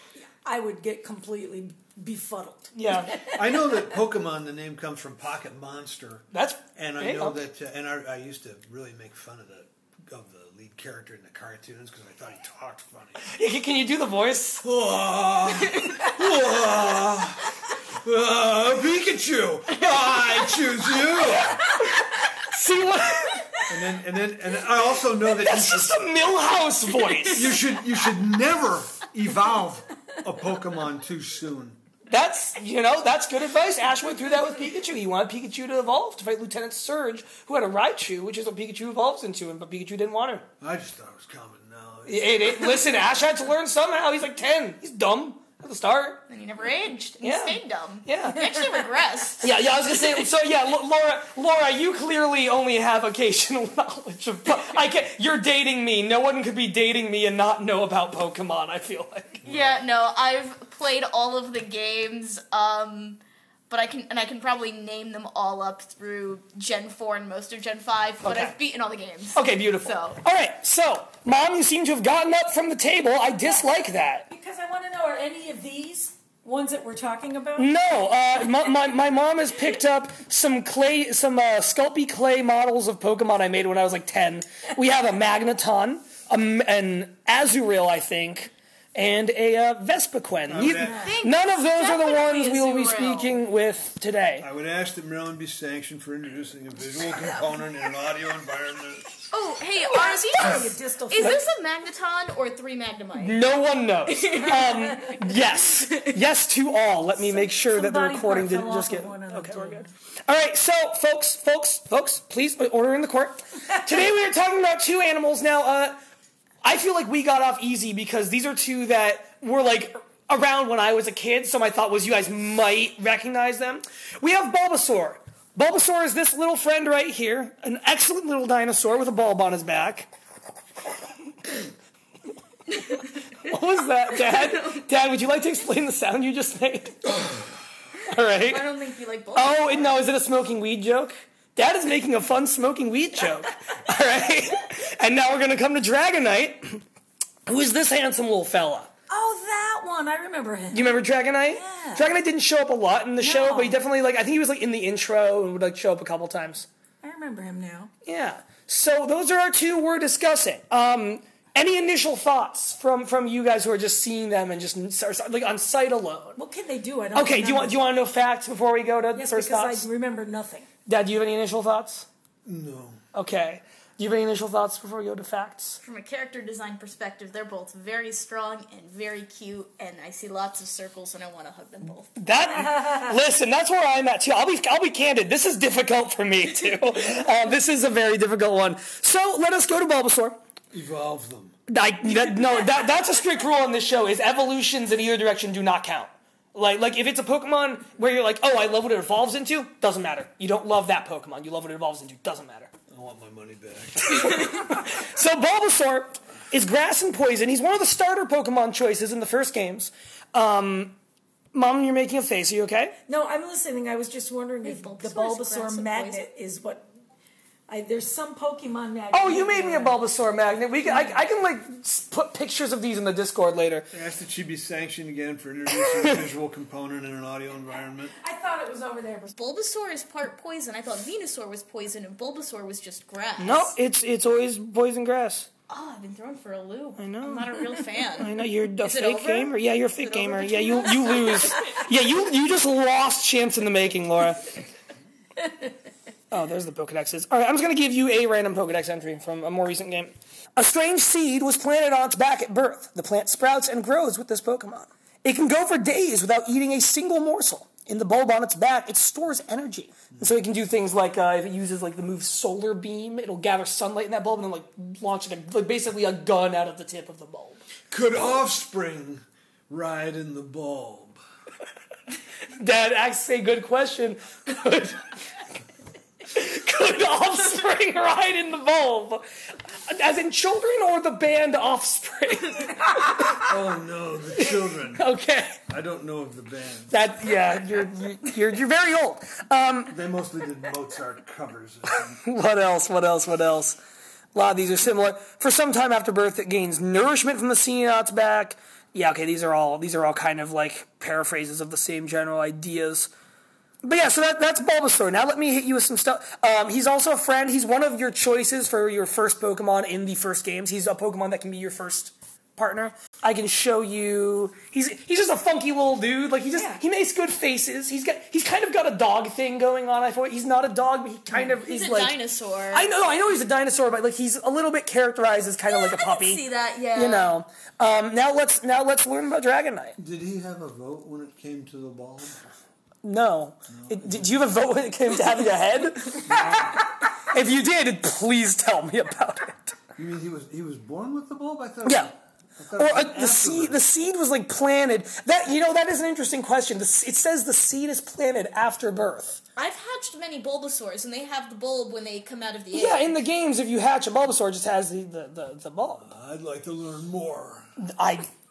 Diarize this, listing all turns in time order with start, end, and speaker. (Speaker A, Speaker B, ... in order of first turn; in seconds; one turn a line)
Speaker A: 0.4-3.4
Speaker B: 2.7-3.2
Speaker C: 3.3-13.2
Speaker B: 6.3-7.4
Speaker B: 13.2-14.6
Speaker C: 14.6-21.6
Speaker B: 21.3-23.6
Speaker C: 23.7-26.0
Speaker B: 25.3-27.6
Speaker C: 27.3-31.8
Speaker B: 32.1-40.5
Speaker C: 40.6-42.6
Speaker B: 42.1-46.2
Speaker D: 46.3-49.5
Speaker B: 47.2-48.4
Speaker B: 49.4-59.4
Speaker C: 59.4-59.8
Speaker D: 59.5-70.2
Speaker B: 68.2-68.6
Speaker B: 69.3-74.3
Speaker A: 74.3-77.7
Speaker B: 77.6-94.5
Speaker C: 90.5-91.1
Speaker A: 90.8-91.2
Speaker D: 91.0-93.3
Speaker C: 94.4-99.1
Speaker D: 99.3-103.4
Speaker A: 99.8-101.4
Speaker B: 103.2-116.0
Speaker A: 104.6-105.2
Speaker A: 107.2-109.9
Speaker B: 116.6-130.1
Speaker B: 133.4-137.1
Speaker D: 134.2-134.8
Speaker B: 138.1-138.6
Speaker D: 138.4-140.0
Speaker B: 139.3-146.8
Speaker B: 147.5-148.9
Speaker A: 149.1-152.1
Speaker B: 150.7-156.7
Speaker A: 153.2-153.8
Speaker A: 157.0-157.9
Speaker B: 158.1-166.4
Speaker A: 166.4-167.8
Speaker B: 167.1-169.9
Speaker A: 169.1-170.7
Speaker B: 170.9-172.1
Speaker C: 172.4-173.0
Speaker B: 173.1-175.8
Speaker D: 175.8-182.2
Speaker B: 182.2-190.4
Speaker A: 182.7-183.1
Speaker C: 190.7-191.5
Speaker B: 191.7-202.7
Speaker A: 192.1-192.9
Speaker C: 202.9-204.4
Speaker B: 204.0-211.0
Speaker B: 211.5-213.0
Speaker A: 213.1-216.9
Speaker D: 214.6-216.3
Speaker A: 217.7-220.0
Speaker B: 219.1-223.9
Speaker A: 220.8-221.2
Speaker C: 223.9-228.2
Speaker B: 225.7-226.2
Speaker A: 228.1-229.3
Speaker D: 229.3-233.7
Speaker B: 233.4-235.5
Speaker D: 235.7-241.8
Speaker B: 237.0-237.5
Speaker B: 238.2-244.5
Speaker B: 246.3-267.6
Speaker C: 267.9-271.2
Speaker B: 272.6-275.2
Speaker B: 276.3-279.2
Speaker B: 279.9-283.4
Speaker C: 283.4-285.0
Speaker B: 284.4-285.6
Speaker C: 285.7-286.9
Speaker B: 286.9-289.9
Speaker C: 289.9-292.2
Speaker B: 292.2-293.8
Speaker B: 294.4-303.1
Speaker B: 303.8-322.2
Speaker D: 321.3-322.9
Speaker B: 322.7-326.4
Speaker D: 325.7-327.3
Speaker B: 326.9-330.0
Speaker C: 330.0-332.5
Speaker B: 333.0-339.7
Speaker C: 333.7-334.3
Speaker C: 336.2-336.8
Speaker C: 340.0-343.8
Speaker B: 341.9-342.1
Speaker B: 342.8-349.4
Speaker D: 349.6-353.2
Speaker B: 352.7-356.1
Speaker C: 355.9-357.7
Speaker B: 357.8-358.3